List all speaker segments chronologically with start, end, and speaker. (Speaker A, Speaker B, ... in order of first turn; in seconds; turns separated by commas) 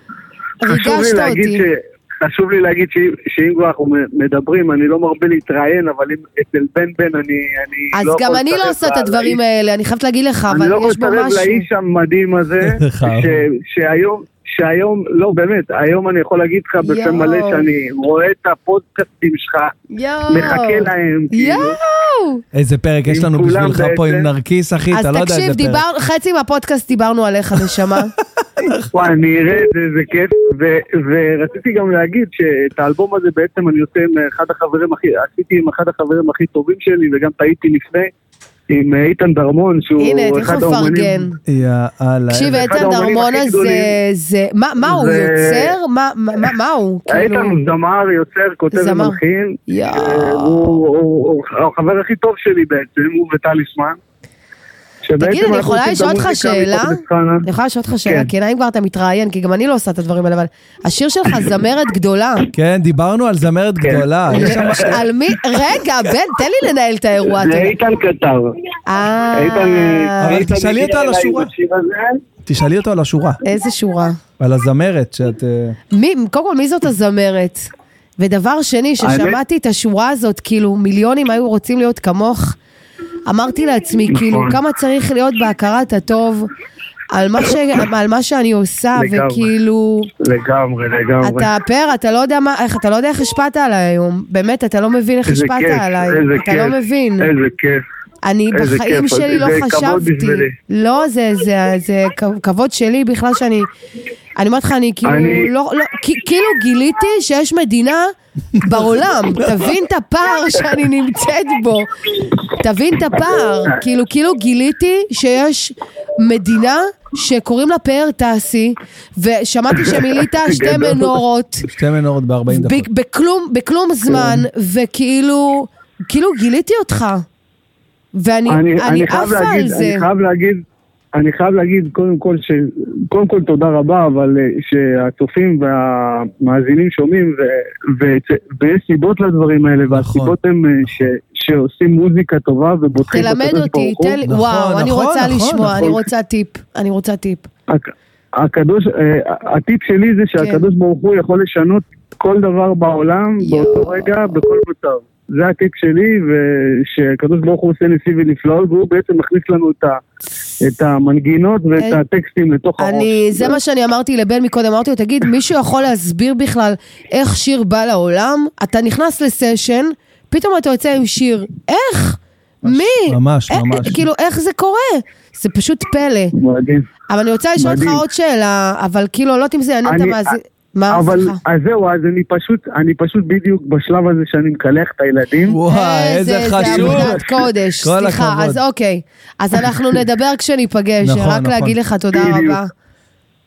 Speaker A: 0.6-1.6, Speaker B: 0.7-9.4, Speaker A: 7.9-11.7, Speaker B: 10.5-19.8, Speaker C: 12.6-13.4, Speaker A: 16.8-17.7, Speaker A: 19.9-22.4, Speaker B: 20.3-21.8, Speaker C: 22.5-25.8, Speaker B: 23.1-24.3, Speaker A: 24.9-28.1, Speaker C: 28.4-28.9, Speaker B: 28.9-38.1, Speaker B: 38.7-41.2, Speaker A: 40.0-41.4, Speaker C: 41.5-42.7, Speaker A: 42.3-47.7, Speaker B: 42.5-43.9, Speaker B: 44.9-45.8, Speaker B: 47.1-54.0, Speaker A: 48.7-50.8, Speaker B: 55.0-57.5, Speaker A: 55.2-62.5, Speaker C: 62.5-65.1, Speaker B: 63.8-64.9, Speaker A: 64.3-67.7, Speaker B: 67.3-68.6, Speaker A: 68.9-70.5, Speaker B: 69.3-72.2, Speaker C: 70.2-71.5, Speaker C: 72.4-73.4, Speaker A: 73.4-74.2, Speaker C: 74.4-75.8, Speaker A: 75.9-82.6, Speaker B: 79.0-79.4, Speaker A: 83.3-86.5, Speaker B: 84.1-84.6, Speaker A: 87.1-90.1, Speaker B: 89.0-89.5, Speaker B: 90.2-91.5, Speaker A: 91.2-97.3, Speaker B: 95.3-97.8, Speaker A: 98.2-103.7, Speaker B: 98.5-100.5, Speaker A: 104.4-121.7, Speaker B: 105.0-105.5, Speaker C: 108.6-109.8, Speaker B: 120.4-121.2, Speaker C: 121.7-122.9, Speaker A: 122.5-127.2, Speaker C: 124.1-124.5, Speaker A: 128.1-130.1, Speaker B: 128.5-130.6, Speaker B: 131.2-144.2, Speaker C: 139.9-141.1, Speaker A: 143.1-147.5, Speaker C: 144.3-146.0, Speaker B: 147.7-160.0, Speaker A: 150.4-150.7, Speaker A: 153.4-154.1, Speaker B: 160.6-163.6, Speaker A: 162.8-176.3, Speaker C: 172.6-174.0, Speaker B: 176.4-176.9, Speaker A: 177.1-181.4, Speaker B: 177.6-178.0, Speaker B: 179.9-180.3, Speaker B: 180.9-185.6, Speaker C: 185.4-187.2, Speaker A: 185.7-192.7, Speaker B: 186.6-187.5, Speaker C: 187.8-188.6, Speaker C: 191.0-191.8, Speaker B: 192.1-192.6